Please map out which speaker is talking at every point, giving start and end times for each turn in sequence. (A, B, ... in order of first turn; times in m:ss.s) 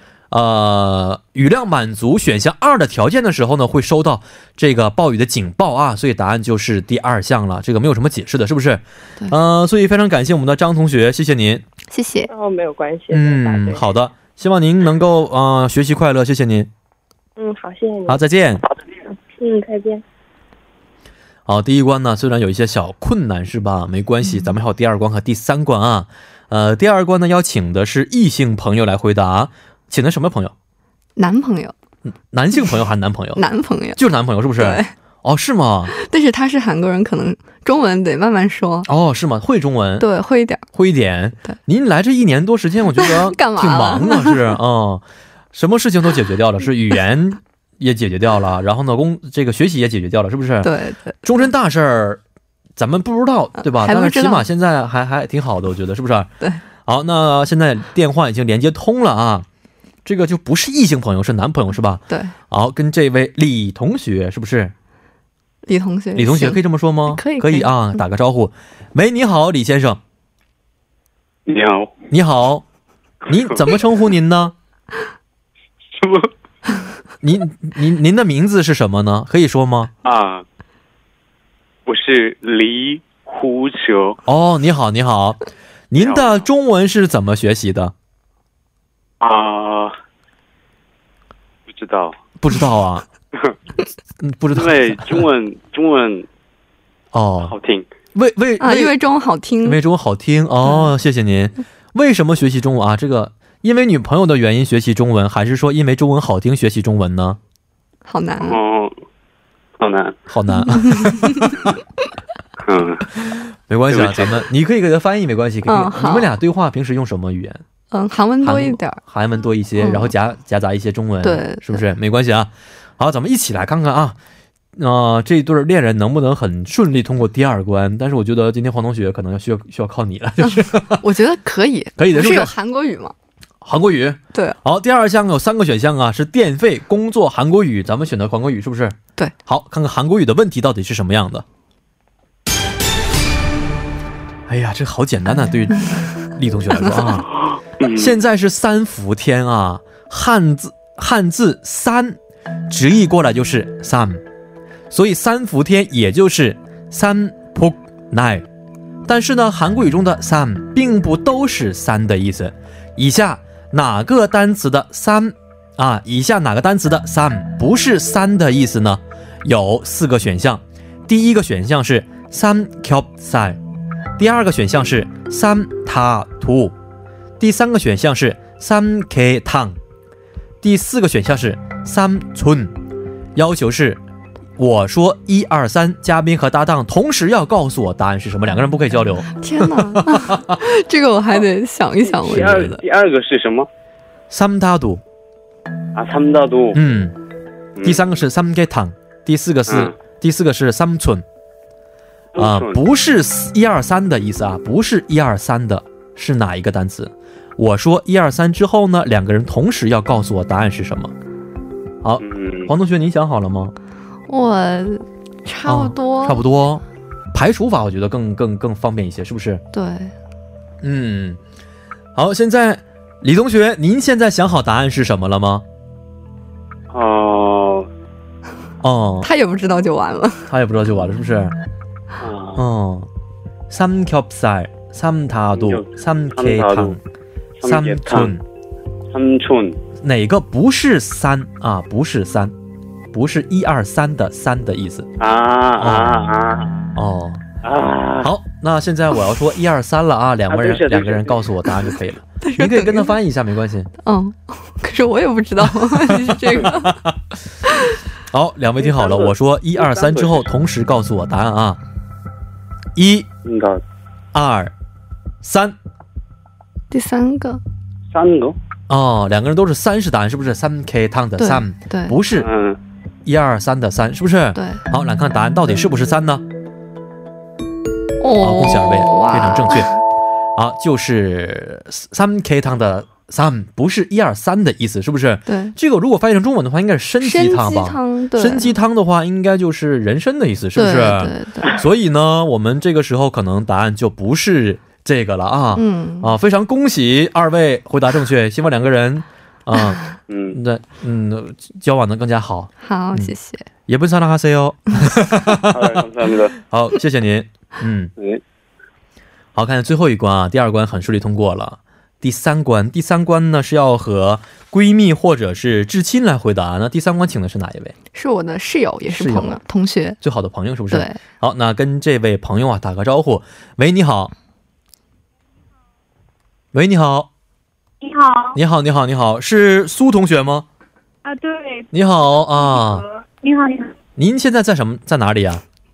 0:00.3-0:11.6 A
0:11.9-0:12.3 B
0:12.3-0:13.8 C
0:13.1-0:16.7 A
0:17.4-0:18.2 C
0:18.1-0:18.6 A
0:19.3-0:20.0 C
0:21.5-0:30.5 A
0:31.2-0:31.7 B
0:32.1-0:33.4 A
0:33.4-0:34.0 B
0:34.0-0:35.9 A
0:34.6-0:34.9 B
0:35.9-0:38.9 B
0:38.9-0:40.1 A
0:40.0-0:40.6 B
0:40.8-0:50.7 A
0:43.0-0:44.5 B
0:50.6-0:51.2 B
0:51.2-0:52.2 A
0:52.8-0:56.3 A
0:53.6-0:54.5 B
0:56.8-0:59.5 A
1:00.0-1:04.7 A
1:02.1-1:02.3 B
1:05.7-1:08.0 B
1:06.2-1:10.0 A
1:11.5-1:12.0 D
1:12.1-1:12.6 A
1:13.3-1:14.6 A
1:15.9-1:16.3 D
1:17.2-1:19.9 A
1:20.0-1:20.4 D
1:21.9-1:24.2 D
1:24.3-1:25.4 A
1:25.9-1:27.9 A
1:26.0-1:26.4 D
1:29.2-1:30.0 D
1:31.7-1:32.2 D
1:32.4-1:33.1 A
1:34.2-1:35.3 A
1:34.5-1:36.3 D
1:37.1-1:37.5 A
1:37.4-1:37.9 D
1:38.2-1:39.0 A
1:38.6-1:39.8 B
1:39.6-1:47.4 A
1:48.1-1:48.6 B
1:48.4-1:48.9 D
1:49.8-1:50.2 D
1:50.3-1:51.6 A
1:50.6-1:51.5 B
1:52.6-1:53.3 D
1:53.7-1:57.6 A
1:53.9-1:54.4 D
1:55.7-1:56.3 B
1:57.9-1:59.0 B
1:58.4-2:04.2 A
1:59.8-2:00.1 B
2:01.2-2:01.8 B
2:04.8-2:11.0 A
2:11.0-2:13.1 B
2:12.0-2:12.5 A
2:13.6-2:21.4 A
2:24.5-2:27.3 A
2:27.3-2:28.1 D
2:27.9-2:32.2 A
2:32.7-2:34.2 A
2:34.9-2:38.5 A
2:39.1-2:53.6 A
2:54.2-2:56.8 A
2:57.4-2:59.8 A
3:00.6-3:02.8 A
3:03.4-3:04.0 A
3:04.6-3:10.6 A
3:09.4-3:12.8 B
3:12.0-3:13.7 D
3:14.3-3:15.0 A
3:16.0-3:16.8 D
3:16.7-3:17.2 A
3:17.8-3:21.2 A
3:19.7-3:19.9 D
3:22.3-3:22.8 D
3:22.4-3:31.1 A
3:32.0-3:33.7 A
3:32.2-3:32.7 D
3:34.3-3:36.4 B
3:35.7-3:39.6 A
3:39.7-3:40.1 B
3:40.8-3:41.4 A
3:42.2-3:45.6 A
3:46.9-3:47.9 D
3:48.8-3:49.3 A
3:49.2-3:50.5 B
3:50.5-3:51.5 A
3:52.2-3:52.6 D
3:52.6-3:53.1 A
3:53.7-3:57.0 A
3:55.6-3:57.0 D
3:57.6-3:58.3 D
3:57.6-3:58.4 A
3:59.1-3:59.8 D
4:00.0-4:02.5 A
4:03.1-4:05.1 A
4:05.2-4:07.0 D
4:05.8-4:06.3 A
4:07.0-4:07.4 A
4:07.6-4:08.3 D
4:08.2-4:13.9 A
4:10.5-4:11.7 D
4:12.4-4:13.2 B
4:14.0-4:17.0 B
4:15.6-4:17.2 A
4:17.7-4:18.0 B
4:18.3-4:21.8 A
4:18.8-4:20.5 D
4:23.0-4:23.3 A
4:23.4-4:23.8 D
4:24.3-4:24.7 A
4:25.4-4:25.8 A
4:26.9-4:27.6 B
4:28.1-4:28.6 D
4:28.9-4:32.5 A
4:31.4-4:32.2 B
4:32.4-4:32.8 D
4:33.2-4:36.4 A
4:34.6-4:34.8 B
4:38.2-4:40.0 B
4:38.4-4:39.9 A
4:40.6-5:00.0 A
4:45.5-4:45.7 B
4:47.2-4:48.7 B
4:50.8-4:51.8 B
4:55.8-4:56.3 B
5:00.3-5:00.6 D
5:00.5-5:03.3 A
5:02.8-5:03.7 B
5:03.9-5:08.1 A
5:05.6-5:06.6 D
5:09.6-5:18.0 A
5:18.1-5:20.2 B
5:19.1-5:19.6 A
5:20.2-5:24.3 A
5:20.9-5:21.2 B
5:26.7-5:27.3 A
5:28.0-5:28.6 E
5:28.5-5:30.7 A
5:31.2-5:31.9 E
5:31.9-5:33.0 A
5:32.6-5:34.0 E
5:34.2-5:35.6 A